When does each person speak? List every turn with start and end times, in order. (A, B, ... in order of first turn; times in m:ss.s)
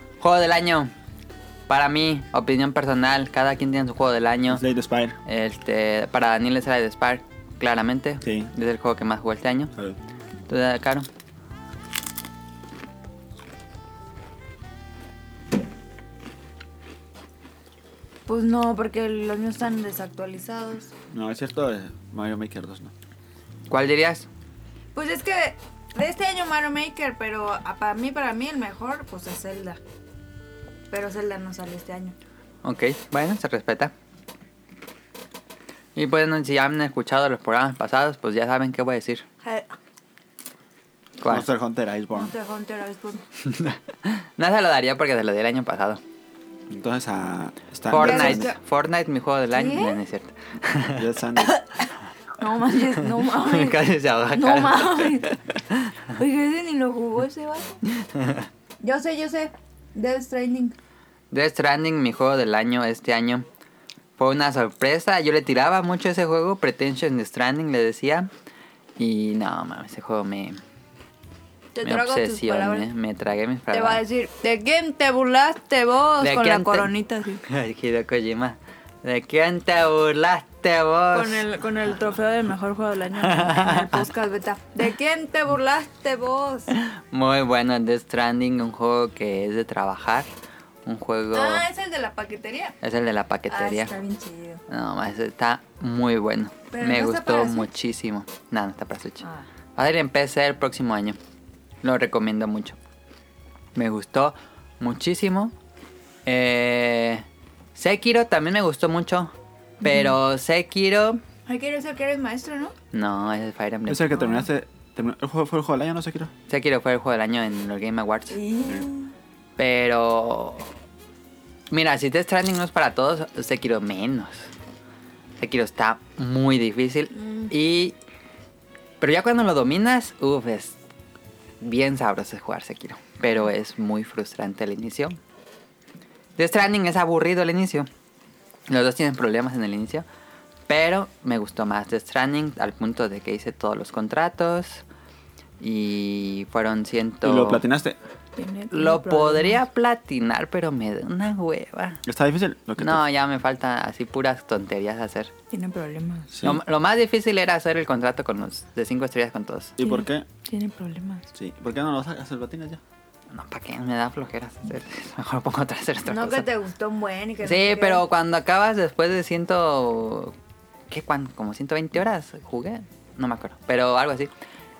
0:00.2-0:00.9 A
0:01.7-0:04.6 A
0:04.5-0:05.2 B
0:05.2-0:09.7 A
0:08.2-0:08.5 B
0:10.5-0:11.1 A
0:18.3-0:20.9 C
0:21.1-0:22.9 B
0:23.7-0:24.3 A
0:24.9-0:29.8 C
0:30.9-0:32.1 C
0:32.6-0:33.9 A
0:36.0-0:39.2 A
0:39.4-0:39.7 C
0:41.2-0:42.3 B
0:42.1-0:43.2 C
0:43.4-0:46.0 A
0:46.7-0:48.5 B
0:47.9-0:51.0 A
0:47.9-0:48.6 C
0:49.5-0:50.0 C
0:51.0-0:51.6 B
0:52.4-0:55.4 C
0:53.2-0:55.9 A
0:56.1-0:57.8 C
0:57.9-0:58.5 A
0:58.8-1:00.7 C
1:01.3-1:03.4 A
1:04.2-1:08.3 A
1:09.0-1:10.6 A
1:11.7-1:12.9 C
1:11.8-1:14.0 A
1:13.7-1:17.4 C
1:16.2-1:16.9 A
1:17.4-1:21.4 A
1:21.1-1:26.7 C
1:23.2-1:24.0 A
1:26.7-1:30.3 A
1:30.9-1:31.6 A
1:31.3-1:32.8 C
1:32.8-1:33.9 A
1:33.5-1:34.6 C
1:34.7-1:39.2 A
1:36.7-1:37.7 C
1:39.8-1:41.2 A
1:41.8-1:42.8 A
1:43.7-1:45.5 A
1:46.2-1:51.2 A
1:49.8-1:50.2 C
1:51.4-1:52.7 C
1:52.9-1:54.2 A
1:53.9-1:56.3 B
1:54.2-1:54.4 C
1:56.5-1:58.4 A
1:58.3-1:59.1 C
1:59.6-2:00.7 A
2:01.7-2:04.5 A
2:05.4-2:07.9 A
2:07.2-2:07.5 C
2:09.0-2:10.8 A
2:11.6-2:15.2 A
2:16.4-2:17.9 A
2:18.7-2:20.0 A
2:20.7-2:24.8 A
2:25.6-2:27.6 A
2:27.2-2:28.0 B
2:28.4-2:29.6 C
2:28.7-2:32.0 A
2:32.1-2:33.0 B
2:32.8-2:35.3 A
2:35.5-2:36.3 C
2:36.3-2:36.6 B
2:36.4-2:39.7 A
2:39.8-2:40.2 B
2:39.8-2:41.3 C
2:41.3-2:42.8 B
2:43.3-2:46.5 A
2:46.1-2:48.0 C
2:47.4-2:50.4 A
2:50.9-2:54.3 A